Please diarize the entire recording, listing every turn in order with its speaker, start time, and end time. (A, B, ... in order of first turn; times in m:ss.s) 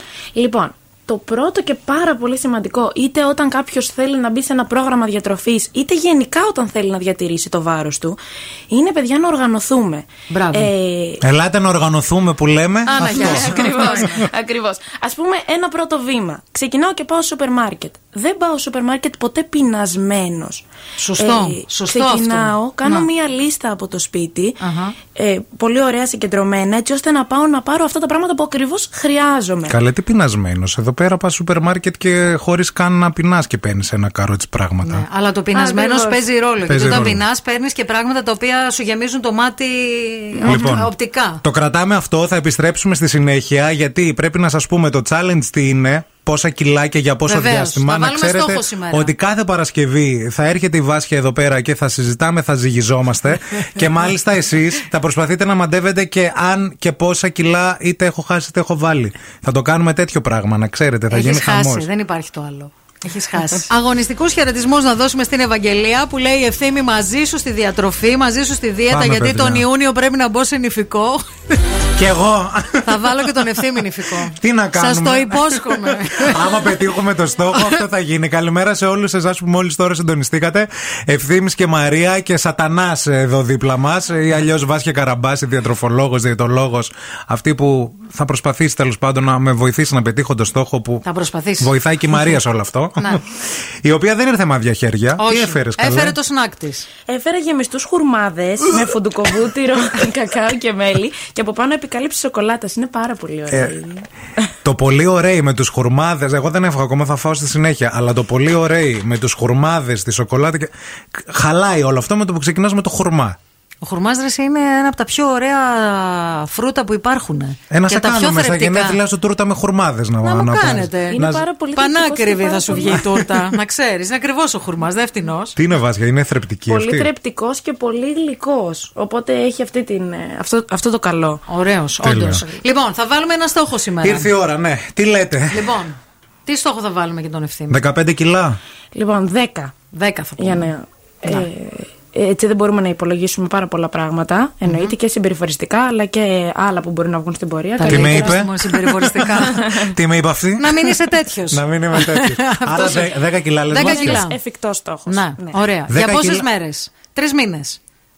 0:00.3-0:08.2 A
0:08.7-0:11.2 A
0:10.3-0:10.7 B
0:11.2-0:14.1 C
0:12.9-0:14.2 B
0:12.9-0:20.6 A
0:21.0-0:23.1 B
0:21.2-0:24.6 A
0:24.6-0:25.0 B
0:25.1-0:29.8 A
0:29.7-0:35.0 C
0:34.8-0:41.4 B
0:35.5-0:36.2 A
0:36.6-0:37.2 C
0:40.3-0:40.8 A
0:40.4-0:40.9 C
0:41.4-1:01.9 C
0:47.3-0:49.1 B
1:01.1-1:11.2 B
1:08.9-1:09.6 C
1:11.9-1:13.3 C
1:12.8-1:16.7 B
1:14.3-1:31.0 C
1:17.5-1:17.8 B
1:31.0-1:31.7 B
1:31.6-1:33.3 C
1:33.8-1:36.2 C
1:35.2-1:36.9 B
1:37.1-1:44.0 A
1:43.5-1:43.8 C
1:44.6-1:53.4 C
1:53.8-1:59.0 B
1:57.7-2:01.4 C
2:00.2-2:01.2 B
2:01.1-2:03.2 A
2:01.7-2:05.6 B
2:02.7-2:03.4 C
2:05.6-2:07.1 C
2:06.7-2:11.4 A
2:11.5-2:14.3 B
2:12.0-2:12.4 C
2:14.0-2:15.7 C
2:15.5-2:17.8 B
2:17.7-2:18.6 C
2:18.9-2:19.7 A
2:19.9-2:20.7 B
2:20.4-2:28.4 A
2:24.6-2:24.9 B
2:27.8-2:29.8 B
2:27.8-2:34.3 C
2:29.4-2:29.9 A
2:30.6-2:33.1 B
2:33.7-2:34.4 B
2:33.8-2:35.6 A
2:35.1-2:37.8 B
2:35.9-2:36.4 C